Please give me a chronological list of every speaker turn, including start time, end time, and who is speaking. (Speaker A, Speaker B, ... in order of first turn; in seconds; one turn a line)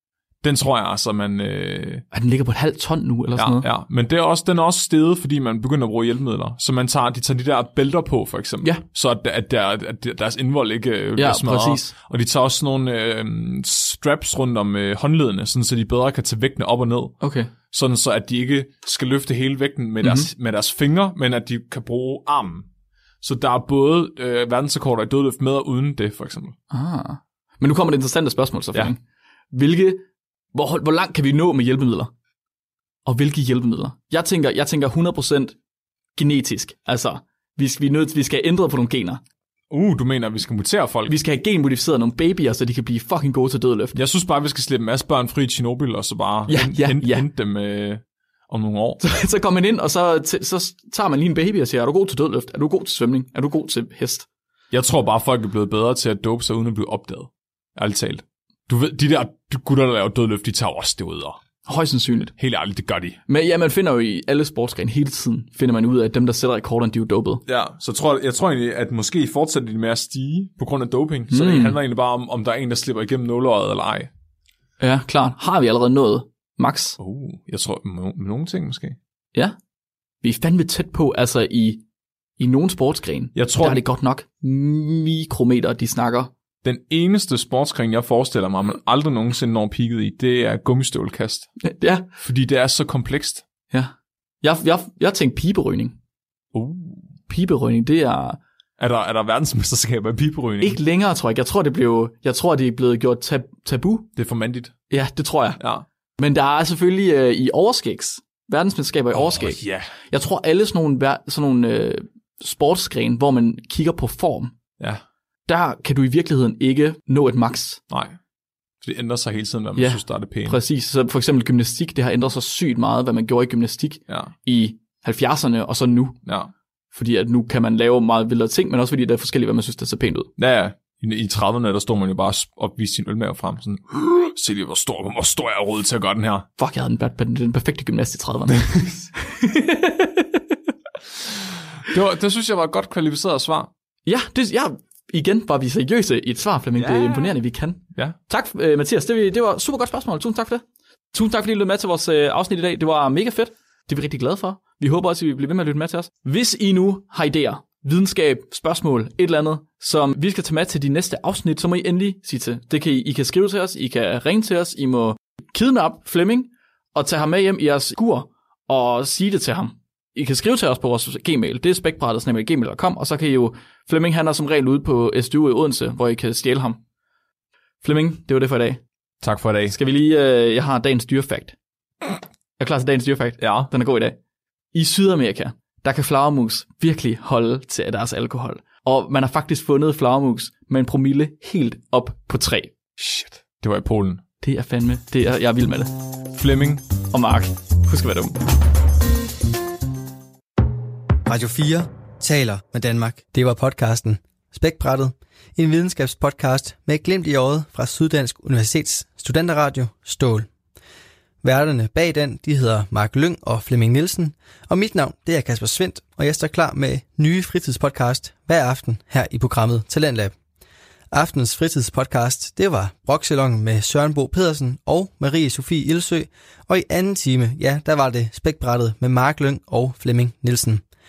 Speaker A: 0.4-2.0
Speaker B: 2.1-3.6
Speaker A: 3.4-17.2
Speaker B: 11.2-11.9
Speaker B: 17.2-17.5
Speaker A: 17.7-22.6
Speaker B: 20.0-20.3
Speaker A: 23.2-26.5
Speaker B: 26.7-29.0
Speaker B: 29.5-32.1
Speaker B: 33.0-35.5
Speaker B: 36.1-39.2
Speaker A: 39.7-41.1
Speaker B: 41.0-44.0
Speaker A: 43.9-49.0
Speaker B: 46.5-47.3
Speaker B: 49.0-54.3
Speaker A: 54.7-61.4
Speaker B: 61.6-62.3
Speaker A: 62.4-63.2
Speaker B: 63.3-67.4
Speaker A: 67.5-74.1
Speaker B: 71.3-71.8
Speaker B: 74.8-77.0
Speaker A: 77.0-79.0
Speaker B: 80.2-81.8
Speaker B: 82.4-86.3
Speaker A: 83.3-83.8
Speaker A: 86.6-91.5
Speaker B: 91.6-92.1
Speaker A: 92.2-93.4
Speaker B: 93.7-95.9
Speaker A: 96.5-97.1
Speaker B: 97.3-98.4
Speaker A: 98.8-100.8
Speaker B: 100.6-104.1
Speaker A: 104.2-104.7
Speaker B: 104.9-105.6
Speaker A: 105.6-105.8
Speaker B: 106.2-114.5
Speaker A: 109.1-109.9
Speaker B: 115.5-117.8
Speaker A: 117.9-118.2
Speaker A: 118.8-120.6
Speaker B: 119.8-126.2
Speaker A: 126.2-126.5
Speaker B: 126.9-130.3
Speaker A: 130.4-136.5
Speaker B: 136.6-140.4
Speaker A: 138.5-139.0
Speaker A: 141.8-143.7
Speaker B: 144.1-150.6
Speaker A: 146.8-147.3
Speaker B: 151.1-176.8
Speaker B: 177.8-178.8
Speaker A: 179.2-179.8
Speaker B: 179.7-181.6
Speaker B: 182.6-184.2
Speaker A: 183.4-183.7
Speaker B: 184.7-192.7
Speaker A: 193.0-194.2
Speaker B: 194.4-195.9
Speaker A: 196.3-196.8
Speaker B: 197.1-198.4
Speaker C: 201.2-210.5
Speaker C: 211.4-220.3
Speaker C: 221.1-230.8